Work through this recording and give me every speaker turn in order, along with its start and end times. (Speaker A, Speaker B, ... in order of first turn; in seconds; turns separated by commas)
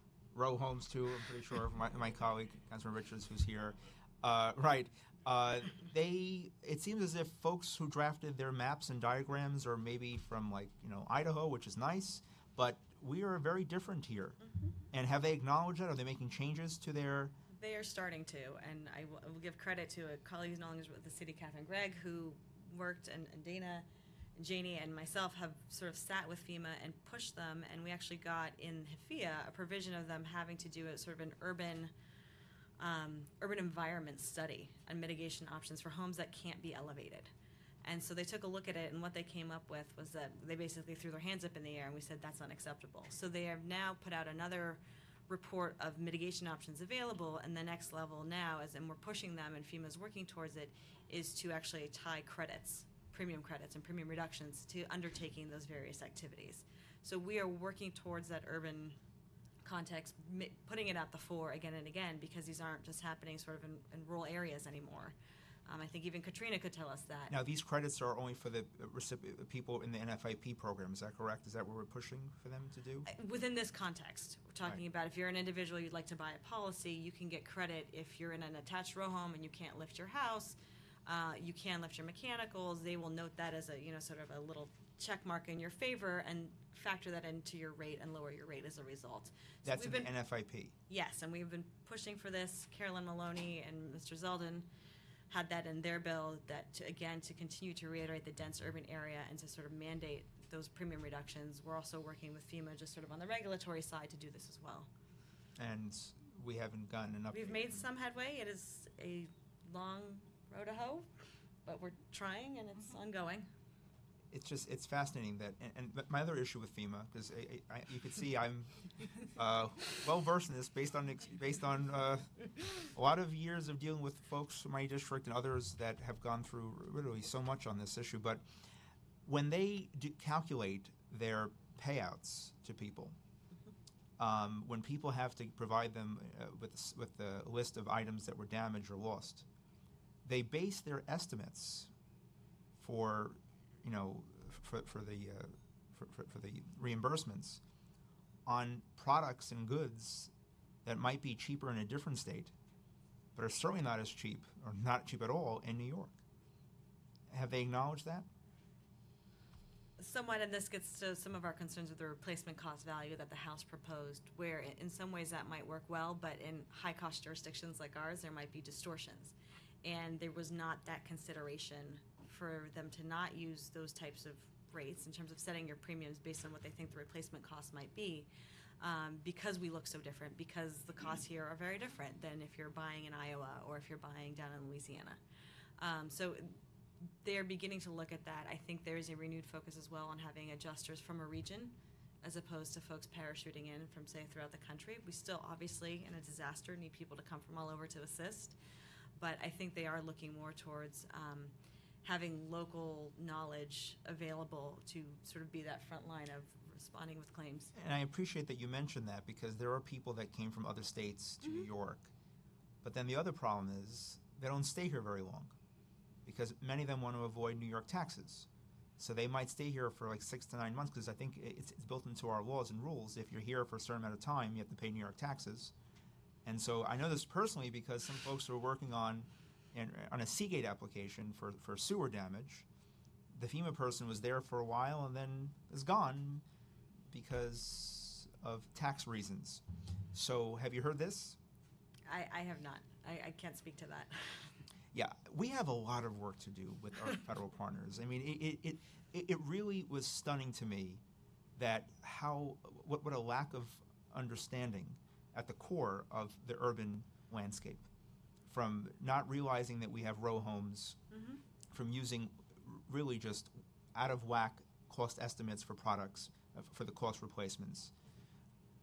Speaker A: 0.3-14.4, Speaker B: 14.4-14.7, Speaker A: 14.9-17.4, Speaker B: 17.5-31.9, Speaker B: 32.8-37.3, Speaker B: 37.8-59.0, Speaker B: 59.6-65.2, Speaker B: 65.7-67.3, Speaker A: 67.3-73.1, Speaker B: 73.1-90.1, Speaker A: 89.6-90.8, Speaker B: 90.9-94.7, Speaker B: 95.3-104.9, Speaker A: 105.6-107.8, Speaker B: 107.3-111.1, Speaker B: 111.7-113.5, Speaker A: 114.3-128.4, Speaker A: 129.2-133.2, Speaker A: 134.2-139.4, Speaker A: 140.2-141.9, Speaker A: 142.8-147.6, Speaker A: 148.5-150.3, Speaker A: 150.8-152.5, Speaker A: 153.3-156.2, Speaker A: 157.3-158.3, Speaker B: 160.0-178.3, Speaker B: 178.8-185.2, Speaker B: 185.8-186.6, Speaker B: 187.2-198.6, Speaker B: 199.2-207.7, Speaker A: 207.7-212.1, Speaker A: 212.8-215.6, Speaker A: 216.2-225.7, Speaker A: 226.4-232.7, Speaker A: 233.3-236.4, Speaker A: 237.1-241.4, Speaker B: 242.1-244.5, Speaker A: 244.9-251.0, Speaker A: 251.6-257.9, Speaker A: 258.5-261.0, Speaker B: 261.1-261.4, Speaker A: 261.7-267.9